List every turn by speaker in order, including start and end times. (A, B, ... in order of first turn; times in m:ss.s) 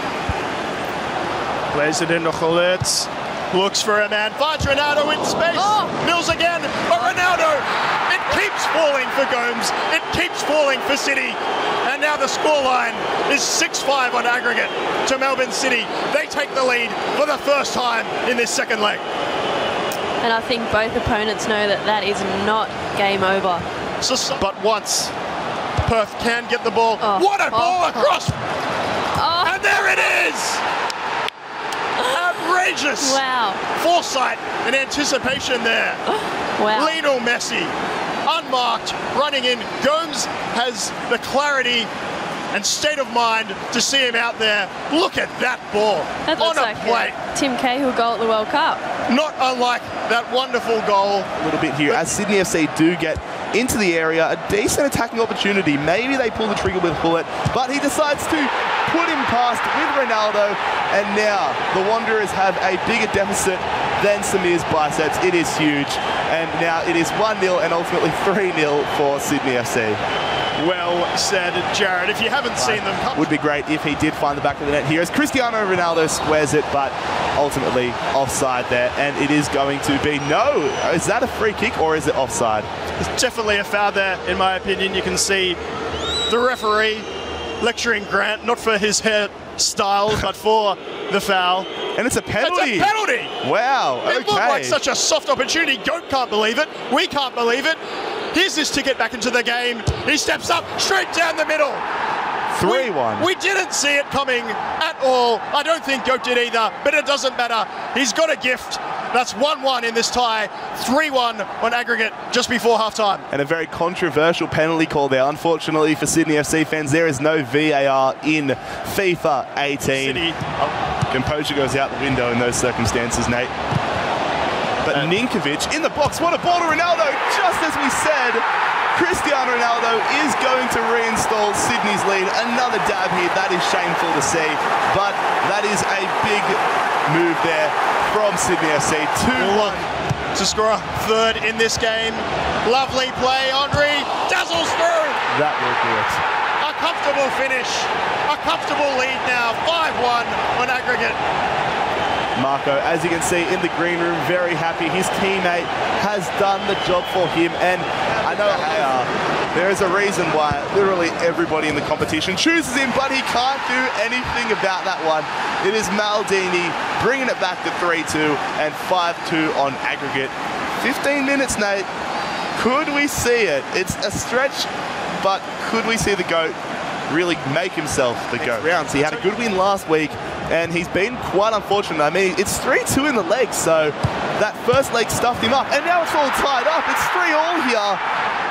0:01.7-0:19.0 A
0:05.5-0:05.9 B
0:07.0-0:07.2 B
0:20.2-0:23.6 B
0:24.0-0:25.1 A
0:25.8-0:28.3 A
0:27.0-0:28.2 B
0:29.1-0:29.6 B
0:29.4-0:30.6 A
0:32.0-0:36.0 A
0:33.0-0:33.6 B
0:36.6-0:37.0 B
0:36.7-0:37.7 A
0:38.2-0:41.9 A
0:42.5-0:47.1 A
0:46.2-0:48.8 B
0:49.1-0:51.3 A
0:51.4-1:10.0 C
1:10.6-1:13.3 A
1:12.6-1:22.7 C
1:23.0-1:25.6 A
1:26.3-1:27.0 A
1:27.6-1:31.8 A
1:31.9-1:34.8 C
1:32.4-1:33.3 A
1:34.0-1:37.8 A
1:38.3-1:41.8 A
1:42.5-1:43.3 C
1:42.6-1:53.2 A
1:53.3-2:00.3 C
1:59.8-2:00.7 A
2:01.1-2:03.5 C
2:04.8-2:19.9 C
2:19.4-2:19.8 A
2:20.3-2:25.2 A
2:25.3-2:26.2 C
2:26.6-2:31.2 A
2:32.4-2:51.9 C
2:52.6-2:56.6 C
2:57.1-3:08.0 C
2:58.4-2:59.4 A